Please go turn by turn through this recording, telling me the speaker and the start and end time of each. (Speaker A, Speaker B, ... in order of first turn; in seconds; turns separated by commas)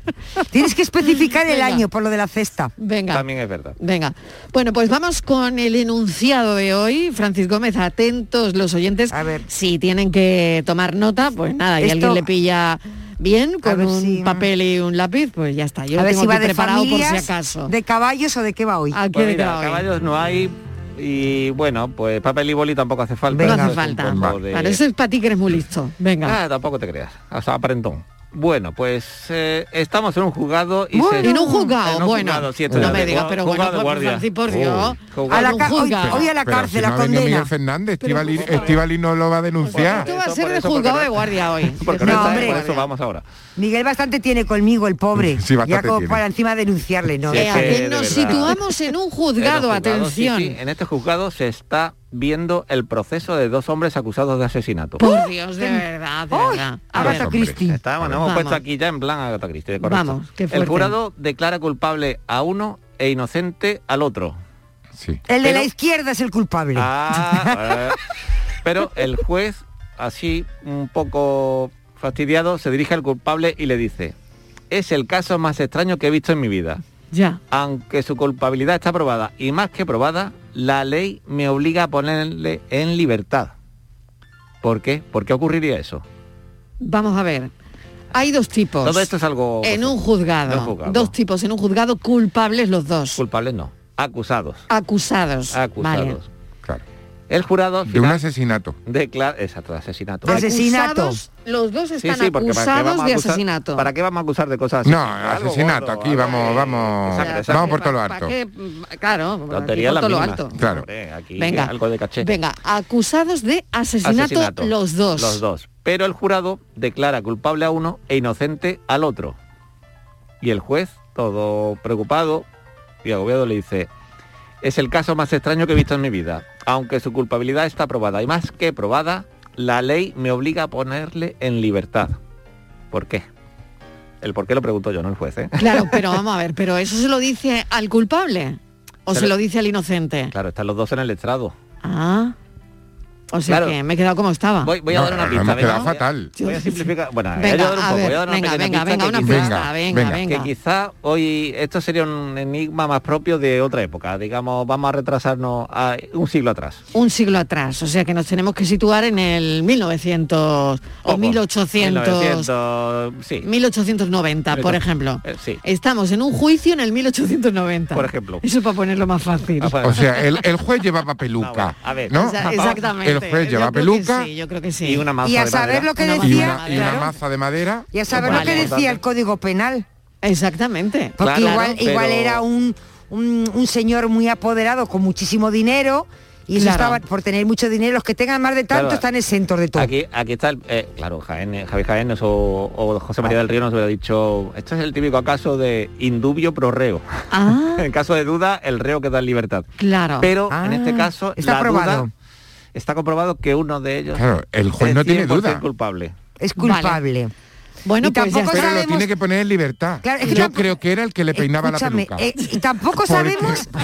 Speaker A: 0.5-2.7, Speaker B: 1.0-1.8, Speaker B: 2.8-3.2, Speaker C: 3.1-3.8, Speaker B: 3.8-17.7, Speaker A: 9.1-9.4, Speaker A: 11.8-12.2, Speaker A: 13.6-14.5, Speaker A: 16.0-19.0, Speaker B: 18.9-19.8, Speaker C: 19.1-24.8, Speaker A: 23.3-23.7, Speaker B: 23.4-26.4, Speaker C: 26.2-34.3, Speaker A: 30.9-31.5, Speaker B: 31.2-36.3, Speaker D: 32.7-33.1, Speaker D: 34.5-35.0, Speaker C: 35.1-35.6, Speaker A: 35.3-37.5, Speaker D: 36.0-40.1, Speaker B: 38.0-38.8, Speaker C: 38.4-38.8, Speaker B: 39.7-42.9, Speaker C: 39.7-43.2, Speaker A: 42.0-42.6, Speaker A: 43.6-47.7, Speaker D: 45.1-46.2, Speaker C: 47.3-48.6, Speaker B: 47.3-50.6, Speaker C: 49.4-55.0, Speaker B: 55.0-57.3, Speaker A: 55.0-57.8, Speaker C: 57.0-64.4, Speaker D: 57.0-58.1, Speaker B: 58.2-58.6, Speaker B: 59.8-60.9, Speaker D: 65.0-65.2, Speaker A: 65.3-67.7, Speaker C: 65.4-65.7, Speaker C: 66.7-68.0, Speaker C: 68.6-74.1, Speaker C: 74.7-76.8, Speaker B: 77.1-77.4, Speaker C: 77.5-83.5, Speaker C: 84.6-86.0, Speaker B: 86.8-87.5, Speaker B: 88.1-89.1, Speaker C: 88.8-91.1, Speaker B: 89.6-93.2, Speaker C: 93.2-94.7, Speaker B: 94.7-96.2, Speaker C: 95.5-96.2, Speaker C: 97.3-98.2, Speaker D: 97.8-98.8, Speaker C: 98.8-100.4, Speaker A: 100.2-101.2, Speaker B: 100.2-103.8, Speaker C: 102.0-107.8, Speaker D: 104.8-108.3, Speaker B: 107.1-110.6, Speaker C: 109.5-112.3, Speaker D: 110.6-110.9, Speaker B: 111.4-115.4, Speaker C: 114.0-119.3, Speaker C: 120.4-122.4, Speaker C: 123.0-123.9, Speaker C: 124.6-132.2, Speaker C: 132.9-133.2, Speaker C: 134.2-136.0, Speaker B: 135.6-140.3, Speaker C: 140.3-141.5, Speaker B: 141.8-142.3, Speaker B: 143.3-144.7, Speaker C: 143.5-143.8, Speaker C: 144.6-156.8, Speaker D: 144.9-146.3, Speaker B: 145.5-150.5, Speaker D: 149.2-150.2, Speaker B: 156.9-162.5, Speaker C: 161.1-163.4, Speaker B: 163.4-169.7, Speaker C: 164.5-165.6, Speaker C: 167.9-168.4, Speaker C: 169.6-170.3, Speaker D: 169.8-174.3, Speaker C: 171.4-172.8, Speaker B: 172.2-175.1, Speaker C: 174.8-176.0, Speaker A: 175.2-176.8, Speaker B: 175.9-177.1, Speaker D: 176.2-178.4, Speaker A: 177.9-179.8, Speaker C: 178.1-179.0, Speaker B: 178.2-178.7, Speaker B: 180.2-181.6, Speaker A: 181.2-189.9, Speaker C: 181.2-182.4, Speaker B: 186.5-187.0, Speaker C: 188.7-189.0, Speaker C: 189.8-197.0, Speaker B: 197.3-197.8, Speaker C: 197.8-199.7, Speaker B: 199.8-200.3, Speaker C: 200.2-202.1, Speaker A: 200.5-202.1, Speaker C: 202.7-204.3, Speaker D: 204.1-205.6, Speaker C: 204.8-206.1, Speaker A: 206.4-207.3, Speaker B: 206.6-207.0, Speaker B: 207.8-208.8, Speaker A: 208.0-209.1, Speaker D: 208.5-212.2, Speaker A: 210.0-210.7, Speaker B: 210.2-210.5, Speaker A: 211.3-213.7, Speaker D: 213.0-213.7